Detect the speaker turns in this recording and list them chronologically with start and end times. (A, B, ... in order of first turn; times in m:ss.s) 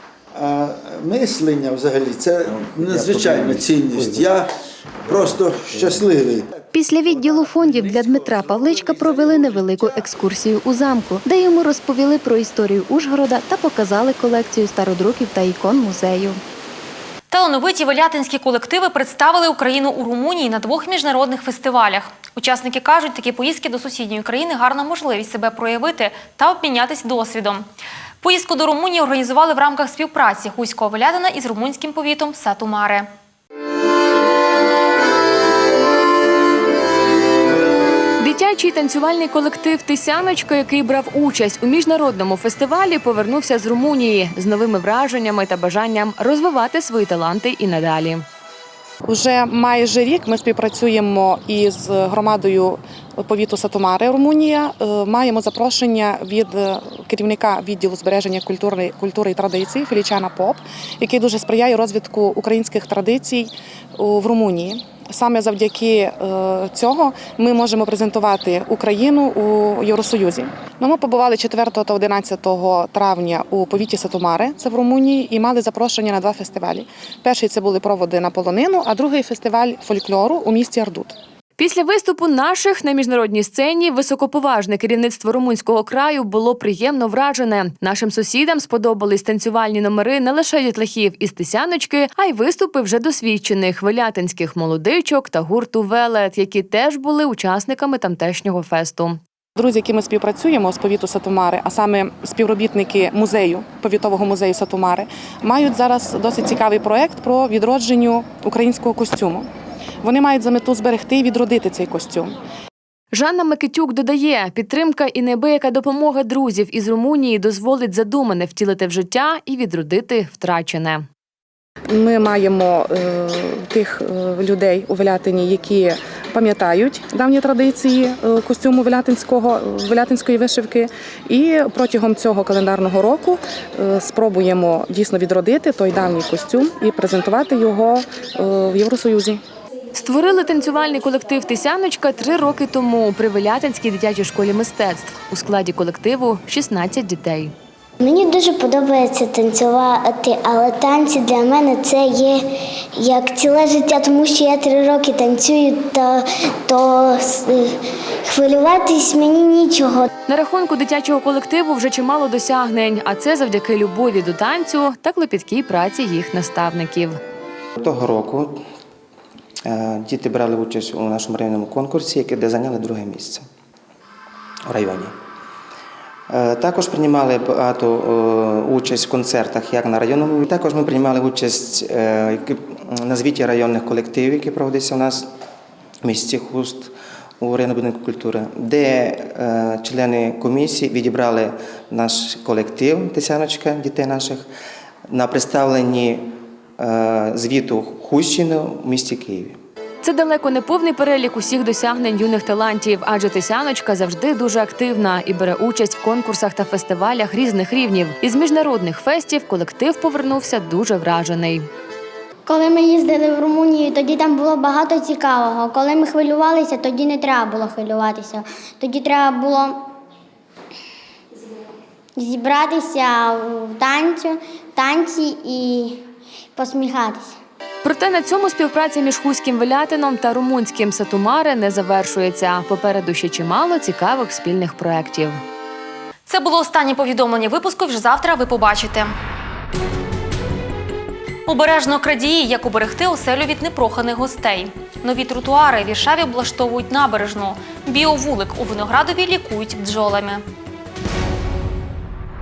0:00.3-0:04.5 A
0:05.0-0:06.5 A
0:06.7-0:16.4 B
0:17.3-0:27.6 C
0:28.2-0:33.1 C
0:38.2-0:48.2 D
0:49.1-1:21.2 E
1:21.6-1:39.2 D
1:39.6-1:49.5 E
1:50.0-1:52.4 E
1:53.1-2:01.0 D
2:01.9-2:19.4 E
2:20.0-2:27.5 D
2:28.0-2:40.1 F
2:40.3-2:47.2 D
2:47.8-2:48.6 G
2:49.7-2:53.5 G
2:54.7-2:55.2 G
2:56.3-3:05.3 G
3:06.0-3:14.5 G
3:15.1-3:19.6 G
3:20.0-3:31.7 D
3:32.5-3:39.8 F
3:42.2-3:46.0 F
3:46.6-3:47.4 F
3:47.8-3:55.4 D
3:56.3-3:59.1 C
4:01.5-4:10.4 C